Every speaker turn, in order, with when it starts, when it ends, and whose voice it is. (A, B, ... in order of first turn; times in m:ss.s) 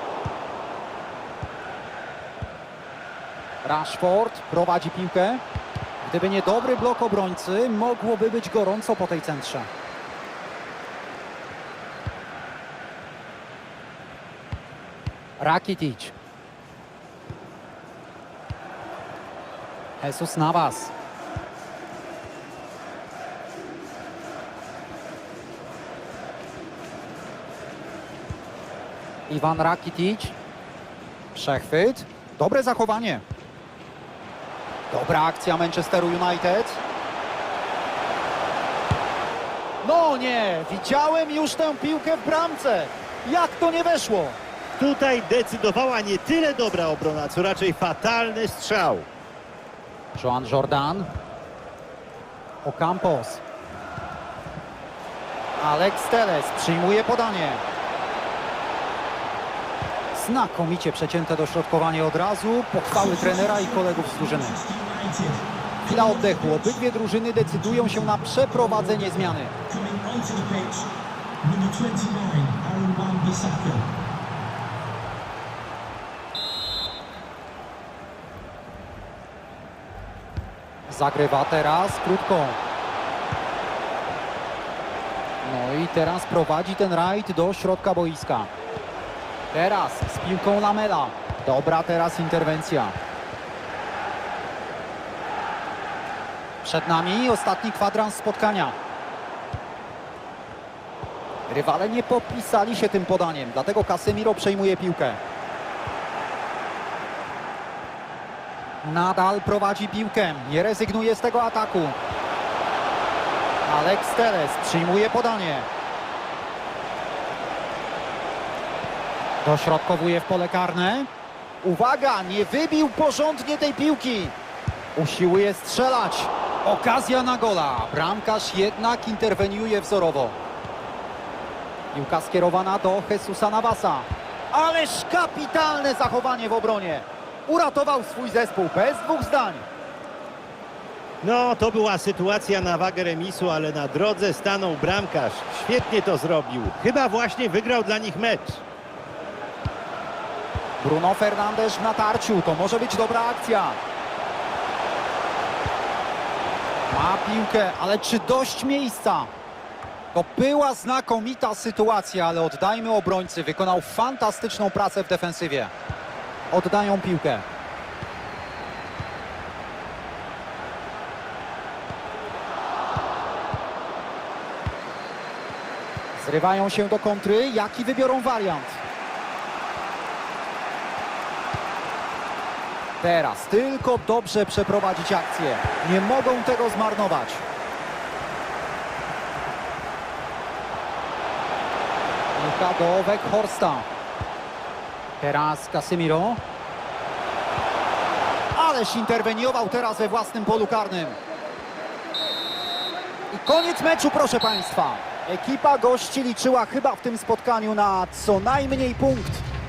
0:03.6-0:05.4 A
0:06.0-0:09.7 A
0:15.4-0:16.1 A
0:20.0-0:20.9 A
0:29.3-0:30.3 A
0:31.3-0:33.2 A
0:34.9-0:36.8 A
0:39.8-0:44.4 A
0:44.8-0:49.1 B
0:50.1-0:51.1 A
0:52.6-0:53.4 A
0:55.6-0:57.6 A
1:00.1-1:04.6 A
1:03.2-1:05.4 C
1:05.8-1:09.5 A
1:06.2-1:06.7 C
1:09.7-1:10.9 C
1:11.4-1:13.8 C
1:20.9-1:22.6 A
1:25.4-1:28.5 A
1:29.5-1:32.9 A
1:36.6-1:38.8 A
1:41.5-1:45.2 A
1:48.8-1:52.0 A
1:53.6-1:55.7 A
1:59.4-2:01.1 A
2:01.6-2:04.3 A
2:04.9-2:10.4 A
2:11.9-2:19.6 A
2:21.2-2:28.6 B
2:30.8-2:33.8 A
2:36.9-2:39.3 A
2:40.1-2:45.7 A
2:46.5-2:47.4 A
2:56.1-2:58.8 A
3:03.0-3:07.4 A
3:12.4-3:13.8 A
3:15.2-3:16.4 A
3:18.5-3:21.2 A
3:23.3-3:29.4 A